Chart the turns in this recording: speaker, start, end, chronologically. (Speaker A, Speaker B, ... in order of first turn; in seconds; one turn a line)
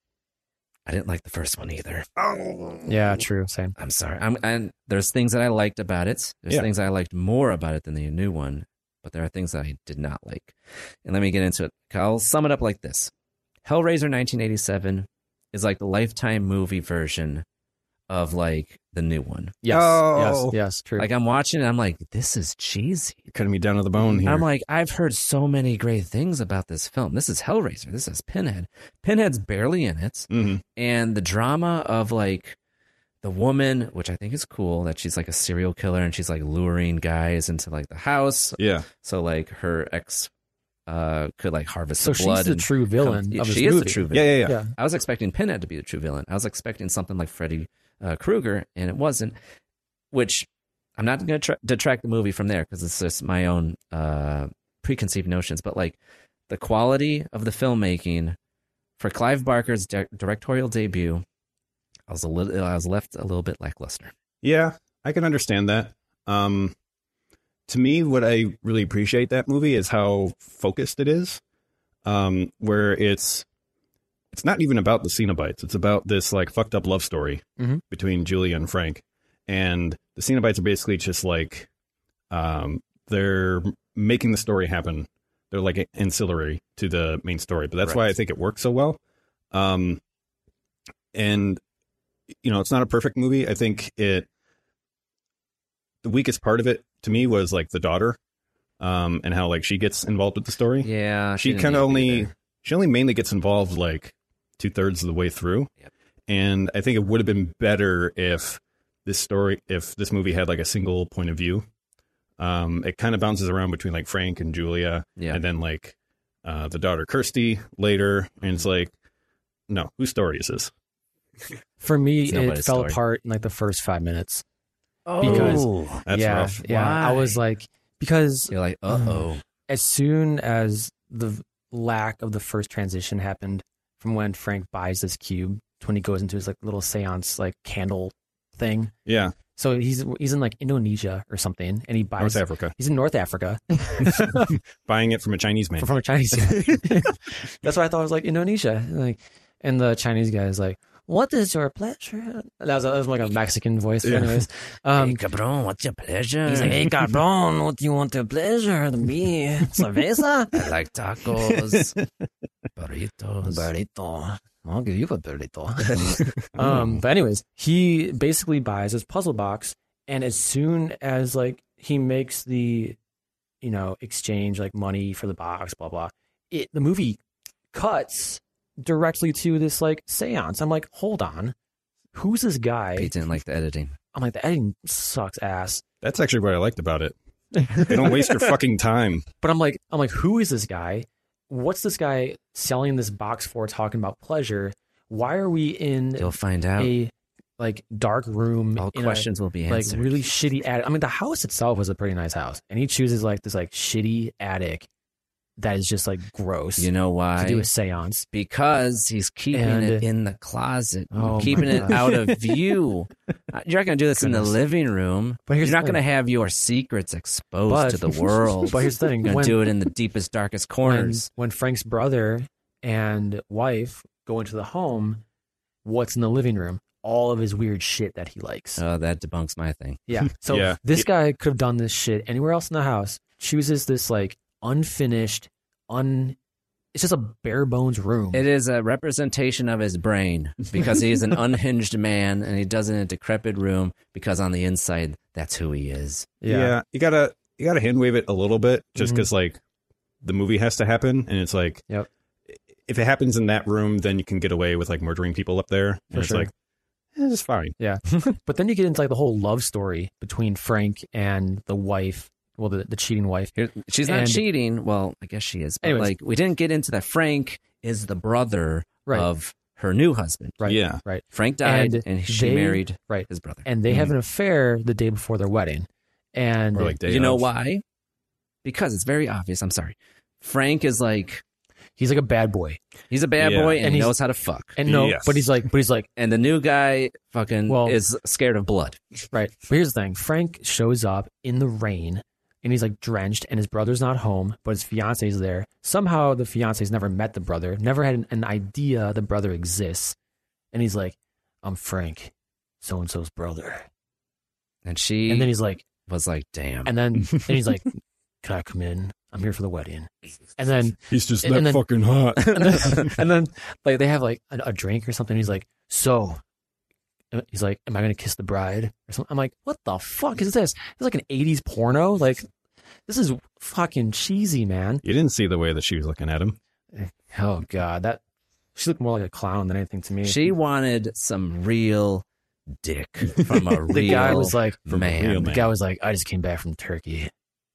Speaker A: 0.8-2.1
Speaker B: 2.2-2.9
Speaker C: 2.9-3.7
Speaker A: 3.8-13.1
Speaker A: 13.6-17.4
Speaker A: 18.1-19.6
Speaker C: 19.6-21.1
Speaker B: 19.7-20.6
Speaker A: 21.0-23.2
Speaker B: 23.3-24.5
Speaker A: 24.2-32.5
Speaker B: 30.3-30.6
Speaker A: 33.2-40.3
Speaker B: 38.6-38.9
Speaker A: 40.9-49.4
Speaker C: 42.0-44.7
Speaker B: 44.1-44.6
Speaker A: 50.1-56.0
Speaker A: 56.5-58.4
Speaker A: 59.0-61.2
Speaker A: 62.1-64.1
Speaker B: 64.4-66.7
Speaker B: 67.7-71.4
Speaker B: 72.0-73.5
Speaker B: 74.3-81.7
Speaker B: 82.3-89.0
Speaker B: 89.5-90.0
Speaker B: 91.1-91.6
Speaker B: 92.4-94.3
Speaker B: 96.0-98.2
Speaker B: 98.8-105.7
Speaker A: 100.8-102.3
Speaker B: 106.3-111.7
Speaker B: 112.4-118.9
Speaker B: 119.7-120.7
Speaker C: 121.8-124.4
Speaker A: 122.3-123.0
Speaker A: 125.1-126.0
Speaker C: 125.2-138.9
Speaker B: 125.2-126.6
Speaker A: 126.6-127.4
Speaker A: 128.5-129.4
Speaker B: 139.1-139.3
Speaker C: 139.6-144.6
Speaker B: 142.2-142.7
Speaker B: 144.0-145.9
Speaker C: 145.8-155.2
Speaker B: 154.0-154.4
Speaker A: 154.9-157.1
Speaker C: 156.4-160.5
Speaker A: 160.5-162.0
Speaker A: 162.8-163.7
Speaker C: 163.4-173.0
Speaker A: 165.8-166.8
Speaker C: 173.6-177.2
Speaker C: 177.7-181.5
Speaker C: 182.1-183.1
Speaker A: 182.9-183.9
Speaker C: 184.1-185.8
Speaker B: 186.0-187.1
Speaker C: 187.6-188.2
Speaker B: 187.7-189.3
Speaker C: 189.4-204.9
Speaker A: 196.2-196.9
Speaker A: 198.8-200.3
Speaker C: 205.6-208.3
Speaker A: 206.8-207.7
Speaker A: 208.3-221.3
Speaker C: 209.5-210.0
Speaker C: 211.1-212.1
Speaker B: 211.7-212.3
Speaker C: 214.2-214.6
Speaker C: 215.5-216.0
Speaker C: 217.7-219.7
Speaker C: 220.8-225.2
Speaker C: 225.8-228.8
Speaker A: 228.8-230.0
Speaker C: 230.1-236.3
Speaker B: 230.5-231.1
Speaker C: 236.9-238.4
Speaker A: 238.3-246.3
Speaker C: 246.4-246.8
Speaker B: 246.5-249.6
Speaker C: 249.0-249.2
Speaker B: 250.2-251.8
Speaker B: 252.8-256.5
Speaker C: 256.1-256.5
Speaker B: 257.1-257.8
Speaker C: 257.8-263.5
Speaker A: 263.5-270.6
Speaker C: 264.1-264.4
Speaker C: 265.8-266.1
Speaker C: 270.6-276.9
Speaker B: 270.6-271.0
Speaker A: 271.3-273.6
Speaker B: 276.7-277.5
Speaker A: 277.0-277.8
Speaker A: 278.6-281.4
Speaker C: 282.0-282.8
Speaker A: 283.1-284.8
Speaker B: 283.4-283.8
Speaker C: 283.8-284.1
Speaker C: 284.8-286.1
Speaker B: 284.8-285.5
Speaker A: 286.2-289.0
Speaker C: 287.7-288.0
Speaker C: 289.3-300.1
Speaker C: 300.7-303.9
Speaker A: 304.8-305.5
Speaker C: 305.3-305.8
Speaker A: 306.1-307.4
Speaker C: 306.8-311.8
Speaker B: 311.1-313.2
Speaker C: 312.4-316.4
Speaker C: 317.3-322.5
Speaker C: 323.1-325.0
Speaker B: 325.0-326.6
Speaker C: 326.9-328.2
Speaker C: 328.8-330.5
Speaker A: 330.2-332.2
Speaker A: 332.8-335.5
Speaker C: 333.9-334.8
Speaker B: 334.9-335.7
Speaker C: 335.4-337.3